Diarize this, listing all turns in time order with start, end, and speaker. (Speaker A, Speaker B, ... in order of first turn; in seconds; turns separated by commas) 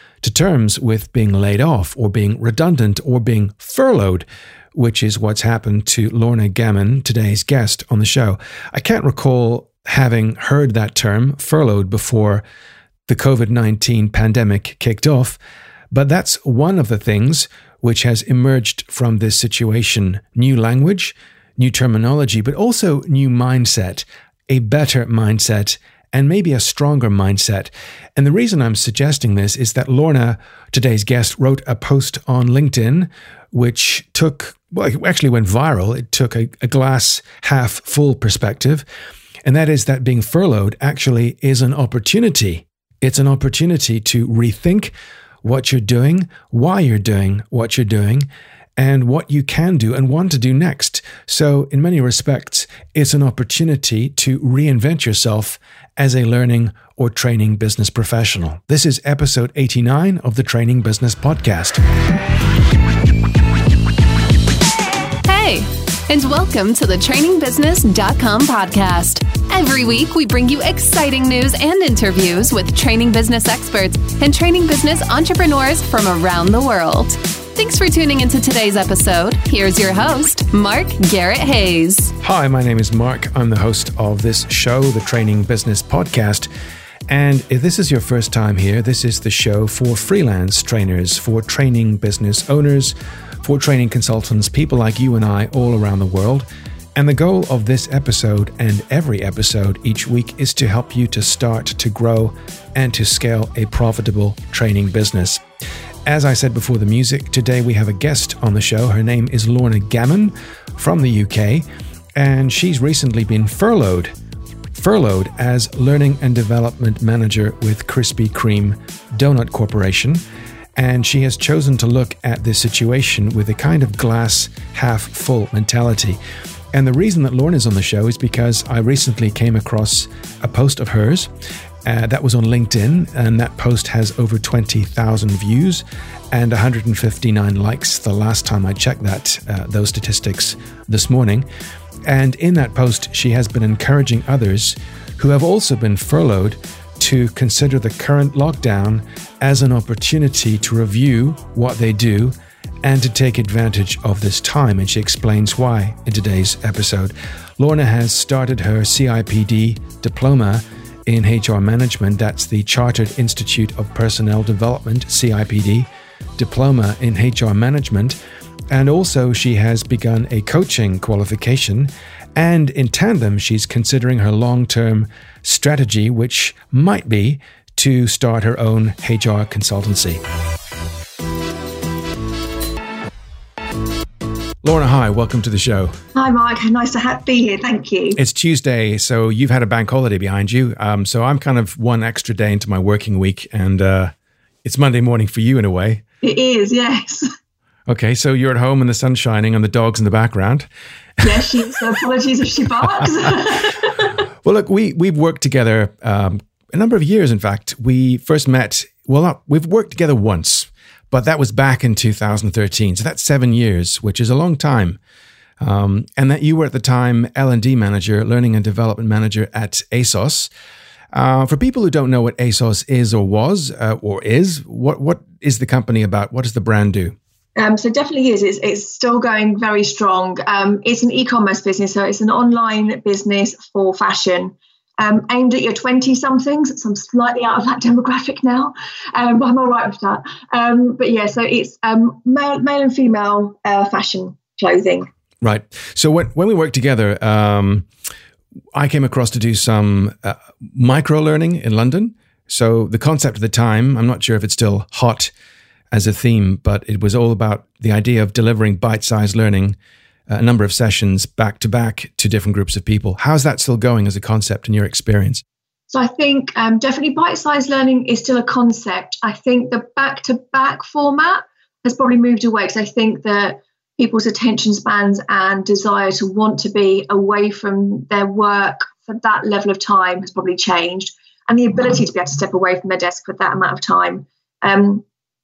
Speaker A: 0.2-12.4, Speaker A: 13.1-15.4, Speaker A: 15.9-38.8, Speaker A: 39.4-44.9, Speaker A: 45.4-61.8, Speaker B: 65.2-82.1, Speaker A: 82.2-86.5, Speaker A: 87.1-105.4, Speaker A: 106.0-111.6, Speaker A: 112.2-114.1, Speaker A: 114.7-120.2, Speaker A: 120.8-126.2, Speaker A: 126.7-131.3, Speaker A: 131.8-141.4, Speaker A: 142.1-168.2, Speaker A: 168.7-180.2, Speaker A: 184.6-186.0, Speaker C: 186.1-188.2, Speaker A: 188.1-194.1, Speaker A: 194.6-196.0, Speaker C: 196.2-197.3, Speaker A: 197.9-200.7, Speaker A: 201.2-201.8, Speaker C: 201.2-204.0, Speaker A: 204.4-215.0, Speaker A: 215.6-220.5, Speaker A: 221.1-227.2, Speaker C: 227.6-245.1, Speaker A: 245.4-247.9, Speaker A: 248.7-255.3, Speaker A: 255.9-259.8, Speaker A: 260.3-265.4, Speaker C: 265.9-285.0